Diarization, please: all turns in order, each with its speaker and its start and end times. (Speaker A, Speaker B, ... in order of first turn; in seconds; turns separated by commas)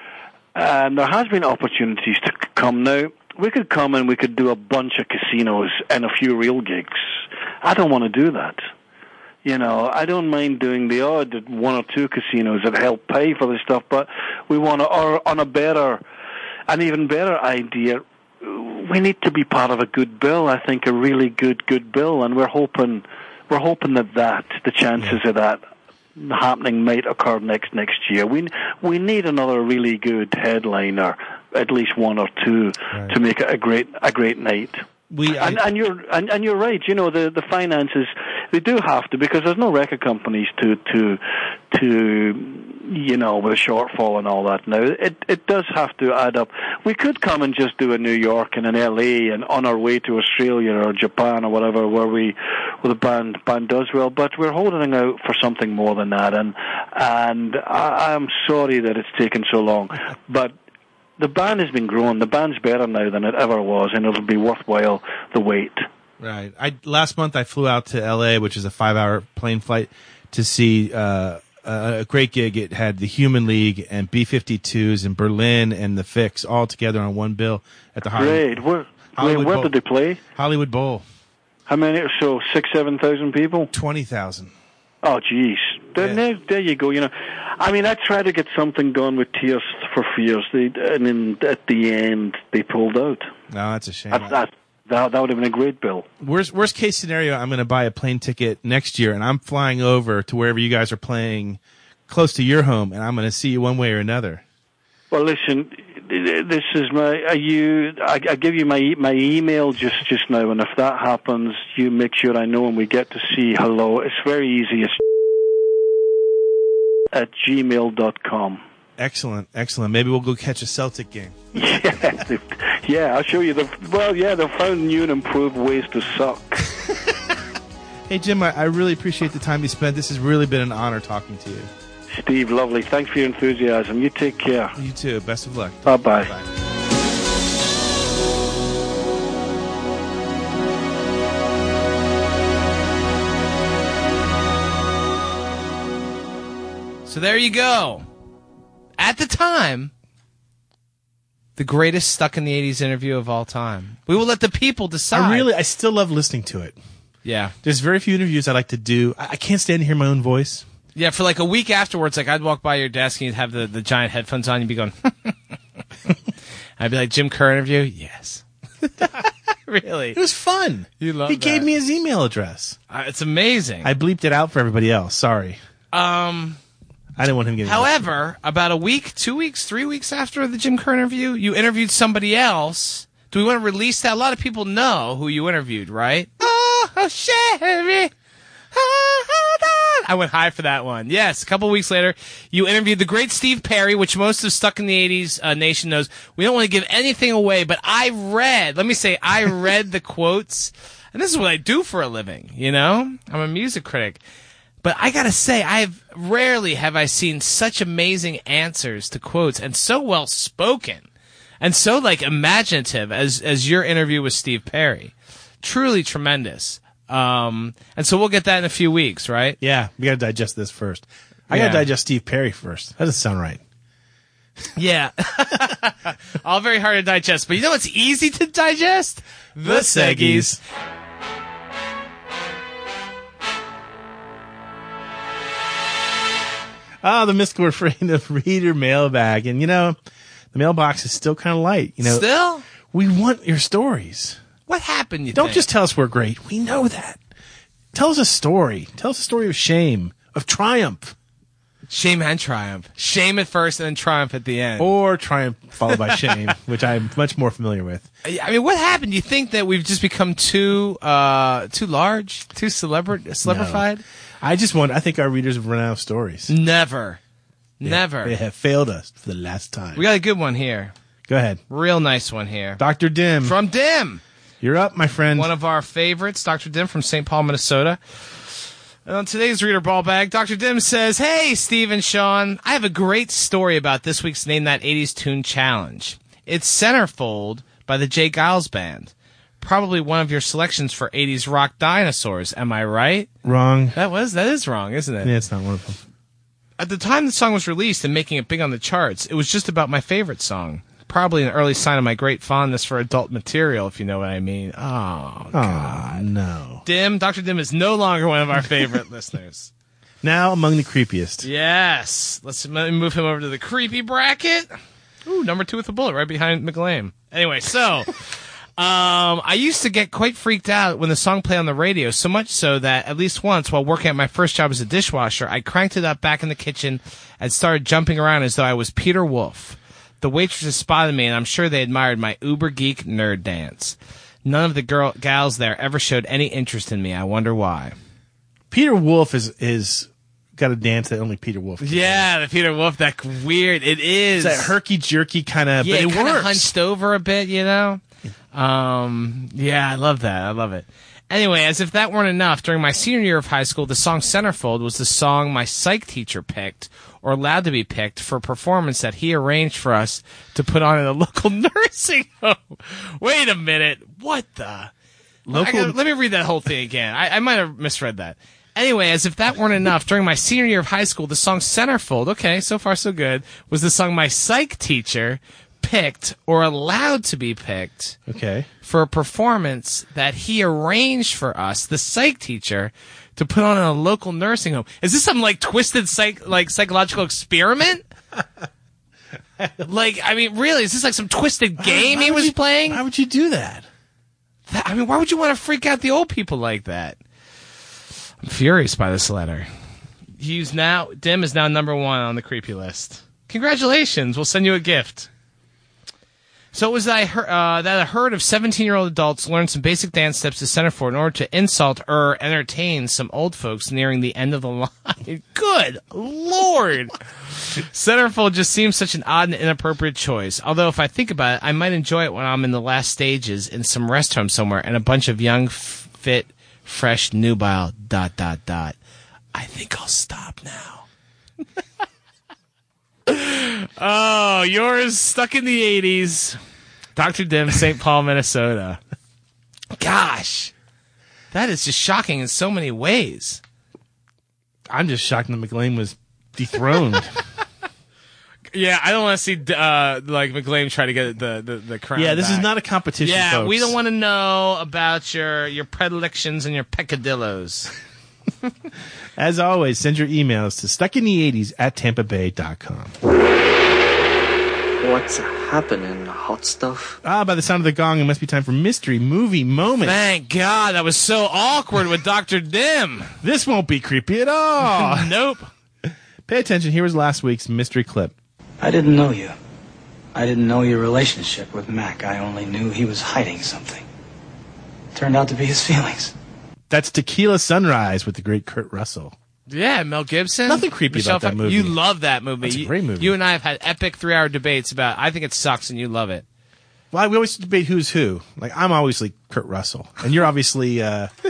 Speaker A: 0.6-8.6, Speaker A: 9.4-16.0, Speaker A: 16.7-25.6, Speaker A: 26.2-60.5, Speaker B: 35.1-35.6, Speaker A: 61.2-65.8, Speaker B: 66.2-78.5, Speaker A: 78.2-80.2, Speaker B: 79.2-79.7, Speaker B: 80.3-81.0, Speaker A: 81.7-83.7, Speaker B: 83.7-84.5, Speaker A: 85.0-93.3, Speaker B: 93.5-94.4, Speaker A: 94.1-96.1, Speaker B: 96.2-104.4, Speaker A: 105.1-115.0, Speaker A: 117.1-118.6, Speaker B: 119.0-121.4, Speaker A: 121.5-126.7, Speaker B: 128.1-131.7, Speaker A: 132.1-134.8, Speaker B: 134.8-136.5, Speaker A: 135.9-136.3, Speaker C: 147.1-148.1, Speaker C: 149.0-149.9, Speaker C: 151.6-155.5, Speaker B: 155.1-156.8, Speaker C: 157.2-157.6, Speaker B: 157.6-160.7, Speaker C: 160.9-165.4, Speaker C: 166.8-170.2, Speaker B: 170.1-172.8, Speaker C: 171.0-171.7, Speaker C: 172.9-173.9, Speaker B: 173.8-175.6, Speaker C: 175.9-176.6, Speaker B: 177.2-178.1, Speaker C: 177.6-188.1, Speaker C: 188.7-204.2, Speaker C: 204.8-211.1, Speaker C: 211.6-219.6, Speaker B: 219.6-223.6, Speaker C: 221.5-221.9, Speaker C: 224.8-230.6, Speaker B: 229.7-230.6, Speaker B: 237.0-240.0, Speaker B: 240.5-242.2, Speaker C: 242.0-242.7, Speaker B: 242.8-244.4, Speaker C: 244.7-245.7, Speaker B: 245.3-247.2, Speaker B: 247.9-251.2, Speaker C: 251.9-254.9, Speaker B: 254.8-258.1, Speaker C: 255.9-256.4, Speaker C: 258.2-264.0, Speaker B: 263.4-263.9, Speaker B: 264.4-266.5, Speaker C: 266.5-267.2, Speaker C: 267.8-268.4, Speaker B: 267.8-270.1, Speaker C: 269.9-270.9, Speaker B: 271.3-271.6, Speaker C: 271.7-272.8, Speaker B: 272.8-273.6, Speaker C: 273.4-274.2, Speaker B: 274.6-275.5, Speaker C: 275.4-293.3, Speaker B: 293.4-294.0, Speaker C: 293.9-295.3, Speaker B: 295.2-296.0, Speaker C: 296.8-306.2, Speaker B: 305.5-306.8, Speaker C: 306.9-309.7, Speaker B: 310.2-311.5, Speaker C: 311.4-338.0, Speaker B: 338.7-342.3, Speaker C: 341.8-344.7, Speaker B: 344.4-346.7, Speaker C: 345.8-348.0, Speaker C: 348.5-364.9, Speaker B: 365.5-366.0, Speaker C: 365.5-378.2, Speaker B: 378.3-378.7, Speaker C: 378.8-388.0, Speaker B: 389.6-389.9, Speaker C: 389.9-393.0, Speaker B: 391.8-393.9, Speaker C: 394.7-397.2, Speaker C: 398.4-399.7, Speaker C: 400.4-405.3, Speaker C: 406.7-429.0, Speaker C: 429.5-431.1, Speaker C: 433.3-436.6, Speaker C: 437.2-439.0, Speaker C: 440.0-440.7, Speaker C: 441.5-443.6, Speaker B: 444.9-447.4, Speaker C: 448.7-452.7, Speaker B: 452.2-454.0, Speaker C: 453.2-457.9, Speaker B: 459.4-463.1, Speaker D: 465.0-467.2, Speaker B: 467.2-470.2, Speaker C: 470.0-473.3, Speaker B: 473.4-475.3, Speaker C: 474.8-475.7, Speaker B: 476.1-478.3, Speaker D: 478.8-479.6, Speaker D: 480.4-484.1, Speaker D: 485.1-486.3, Speaker B: 486.9-489.4, Speaker C: 489.7-496.4, Speaker B: 490.7-492.0, Speaker B: 492.6-493.3, Speaker B: 497.1-501.3